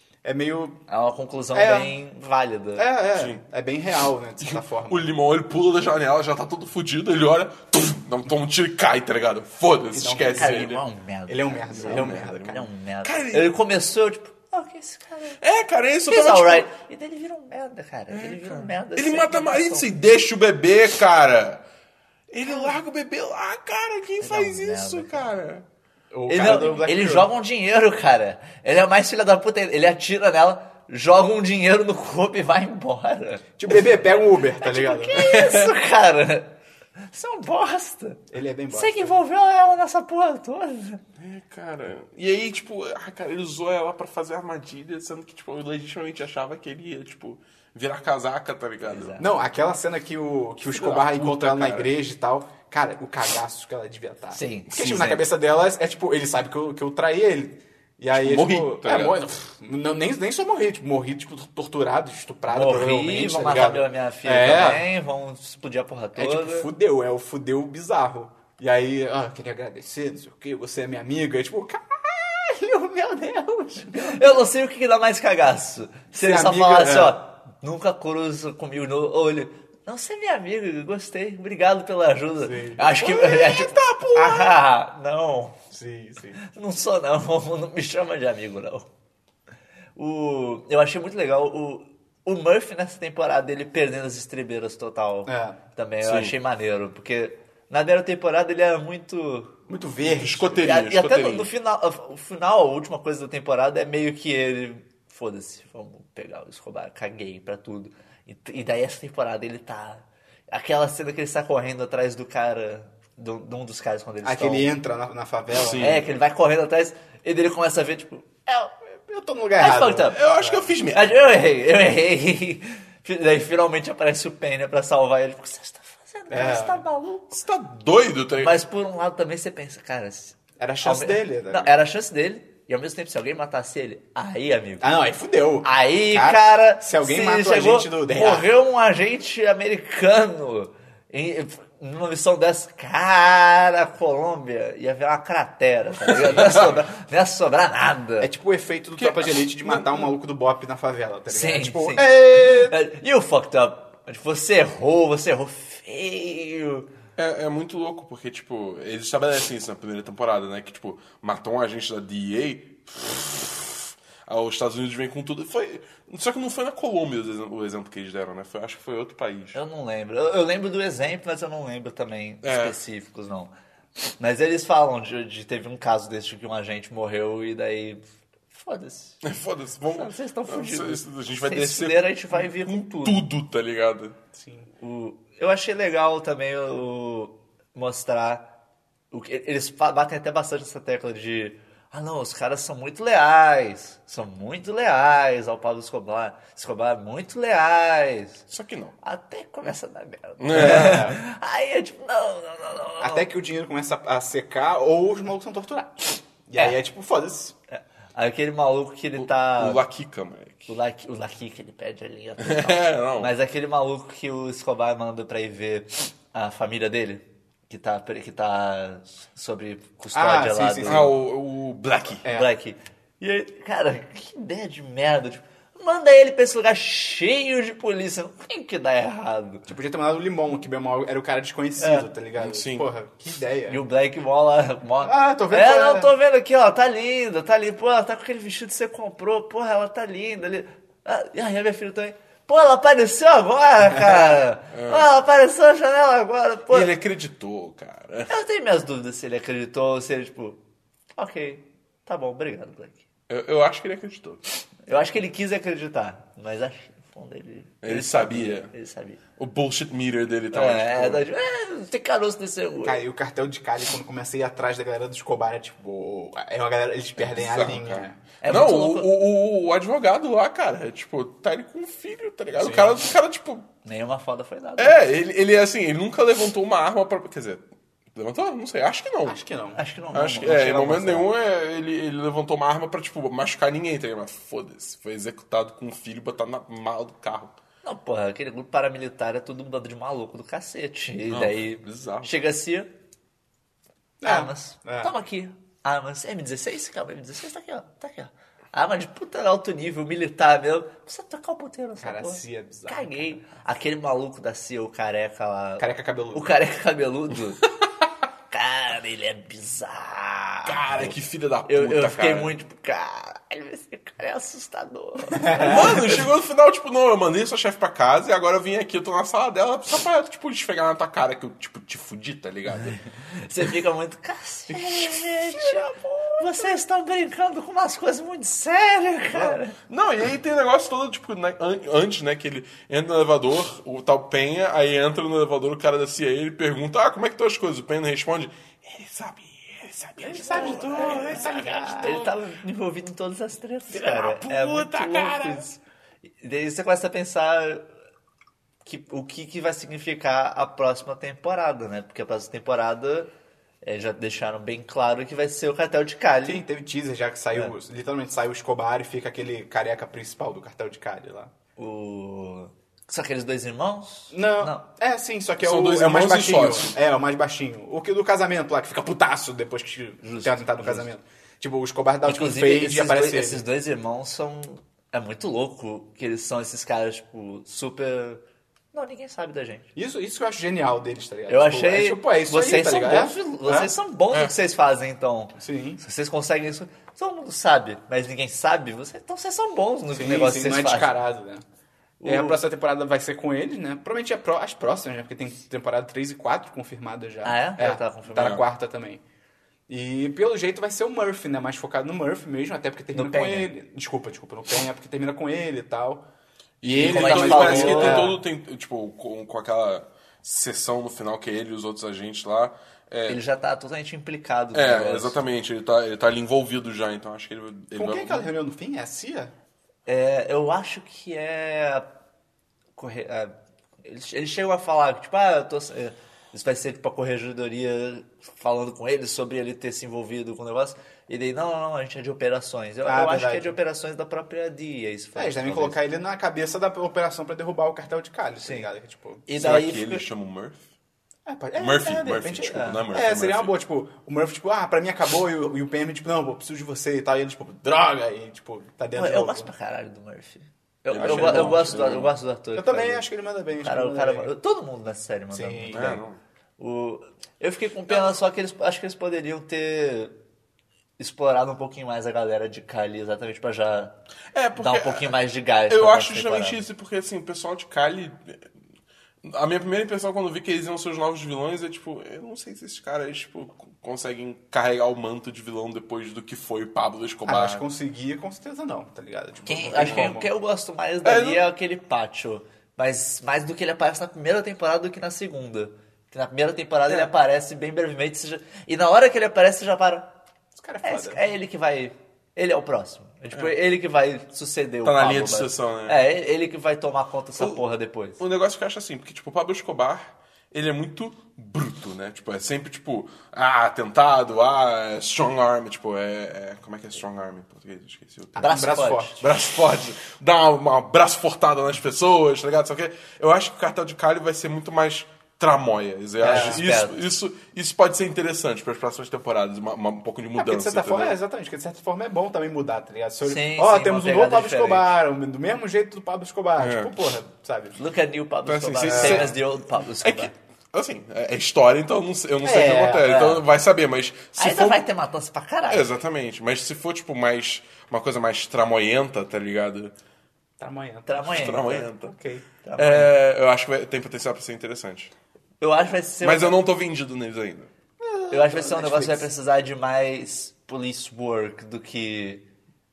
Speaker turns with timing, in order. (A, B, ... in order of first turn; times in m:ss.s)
0:00.2-0:00.8 A
0:00.9-0:02.8 B
0:01.5-0:01.9 A
0:02.8-0:05.1 A
0:03.1-0:03.4 C
0:04.4-0:10.8 C
0:09.9-0:12.7 A
0:10.4-0:15.4 B
0:11.7-0:13.5 C
0:15.4-0:16.7 C
0:16.1-0:19.9 B
0:18.1-0:21.6 C
0:22.3-0:25.6 C
0:24.2-0:25.3 B
0:26.1-0:27.3 A
0:26.3-0:33.5 B
0:33.6-0:35.2 A
0:34.6-0:41.0 B
0:35.2-0:35.7 C
0:38.3-0:39.2 A
0:41.2-0:49.1 C
0:48.8-0:49.3 B
0:49.2-1:04.9 A
0:50.6-0:51.9 C
0:54.3-0:55.3 B
0:58.1-0:59.2 C
1:02.5-1:06.7 B
1:06.2-1:14.4 A
1:13.9-1:25.6 B
1:16.1-1:17.2 A
1:22.4-1:23.0 A
1:23.0-1:24.3 C
1:24.2-1:24.5 A
1:25.7-1:26.4 A
1:26.4-1:28.9 B
1:30.0-1:39.6 B
1:35.2-1:35.6 A
1:36.0-1:36.3 C
1:39.7-1:40.7 A
1:40.0-1:41.5 C
1:40.6-1:54.7 B
1:54.2-1:56.0 A
1:55.5-1:56.0 C
1:55.8-1:58.7 B
1:59.1-2:00.7 A
1:59.6-2:00.2 B
2:00.1-2:01.4 C
2:00.9-2:07.3 B
2:06.3-2:06.8 A
2:07.3-2:08.6 C
2:08.4-2:14.8 B
2:10.6-2:11.8 A
2:14.8-2:18.5 A
2:15.6-2:28.3 B
2:26.1-2:26.8 C
2:28.2-2:32.8 A
2:29.0-2:30.1 C
2:31.3-2:36.9 B
2:37.2-2:49.6 C
2:49.5-2:53.5 B
2:52.4-2:52.8 C
2:54.2-2:59.2 B
2:59.2-3:04.2 C
2:59.9-3:03.3 B
3:04.4-3:04.7 A
3:04.8-3:08.5 B
3:09.1-3:18.4 B
3:18.5-3:18.9 C
3:19.0-3:23.3 B
3:20.4-3:21.1 C
3:20.5-3:21.2 A
3:23.0-3:27.5 A
3:27.7-3:29.8 B
3:29.2-3:30.7 C
3:30.7-3:41.1 B
3:32.4-3:33.3 C
3:40.1-3:41.1 A
3:40.8-3:42.2 C
3:42.2-3:42.5 A
3:42.2-3:49.7 B
3:49.7-3:53.8 A
3:51.8-3:52.1 B
3:52.4-3:52.8 C
3:53.7-4:06.9 B
3:55.0-3:56.1 A
4:03.9-4:04.4 A
4:04.7-4:05.1 C
4:06.7-4:08.3 C
4:08.3-4:10.6 B
4:11.1-4:13.0 B
4:13.3-4:14.4 C
4:14.9-4:19.2 B
4:17.8-4:18.7 C
4:19.4-4:21.2 C
4:20.5-4:23.0 B
4:22.8-4:28.2 A
4:27.2-4:33.7 C
4:28.4-4:29.1 B
4:32.6-4:33.0 A
4:33.8-4:35.0 B
4:34.8-4:39.4 C
4:39.2-4:39.8 A
4:39.7-4:41.3 B
4:40.1-4:47.5 C
4:47.8-4:52.9 B
4:51.3-4:52.4 C
4:54.2-4:55.1 A
4:54.2-5:07.6 B
5:02.0-5:03.3 A
5:05.8-5:06.5 A
5:08.5-5:11.1 B
5:10.6-5:12.6 C
5:11.7-5:16.2 B
5:15.3-5:16.2 A
5:15.6-5:23.0 C
5:23.2-5:29.7 B
5:24.7-5:26.7 C
5:29.3-5:42.3 C
5:40.2-5:42.3 A
5:40.4-5:45.8 B
5:43.9-5:45.7 C
5:46.4-5:47.8 B
5:48.8-5:53.3 B
5:53.8-5:56.6 B
5:56.4-6:01.5 A
6:01.8-6:04.8 B
6:04.3-6:13.6 A
6:05.6-6:07.0 C
6:10.2-6:11.1 B
6:12.2-6:18.4 B
6:18.9-6:19.9 B
6:19.9-6:23.9 A
6:21.5-6:31.1 B
6:25.6-6:26.0 A
6:30.1-6:31.6 A
6:32.2-6:32.6 B
6:32.2-6:39.2 A
6:37.4-6:38.6 B
6:39.9-6:46.2 A
6:43.1-6:43.7 B
6:46.8-6:53.4 C
6:46.8-6:48.4 A
6:47.1-6:48.4 B
6:53.3-6:55.4 B
6:54.7-6:58.5 C
6:57.9-6:59.5 A
7:00.1-7:02.1 B
7:03.0-7:16.0 B
7:13.0-7:13.8 A
7:15.4-7:19.4 A
7:18.6-7:18.9 B
7:19.5-7:20.2 B
7:19.5-7:20.9 C
7:21.4-7:29.7 A
7:21.8-7:23.7 C
7:22.7-7:23.0 B
7:29.2-7:33.2 B
7:31.1-7:32.3 C
7:31.2-7:32.0 A
7:32.7-7:34.5 A
7:33.8-7:36.2 B
7:35.5-7:36.2 A
7:35.9-7:36.4 C
7:36.8-7:40.3 B
7:41.2-7:44.1 B
7:44.5-7:45.3 C
7:44.8-7:46.8 B
7:45.9-7:48.6 C
7:49.4-7:57.8 C
7:57.4-8:00.5 A
7:59.7-8:10.3 B
7:59.9-8:00.3 C
8:01.2-8:01.6 C
8:10.7-8:11.4 A
8:11.0-8:18.4 B
8:15.0-8:16.2 C
8:18.4-8:28.9 C
8:28.6-8:29.3 A
8:28.6-8:29.4 B
8:29.4-8:41.4 C
8:36.4-8:36.8 A
8:36.4-8:37.2 B
8:40.6-8:48.0 A
8:43.4-8:45.1 B
8:46.8-8:47.1 C
8:48.0-8:50.5 B
8:48.6-8:49.6 C
8:49.1-8:49.5 A
8:50.2-8:55.0 C
8:52.6-8:53.3 A
8:53.2-8:53.7 B
8:54.6-8:56.1 B
8:55.9-9:00.1 C
9:00.8-9:02.7 A
9:01.2-9:02.0 B
9:01.4-9:02.3 C
9:02.8-9:03.3 B
9:03.0-9:05.3 C
9:05.8-9:06.8 B
9:06.4-9:07.9 C
9:08.2-9:09.5 A
9:08.5-9:12.6 B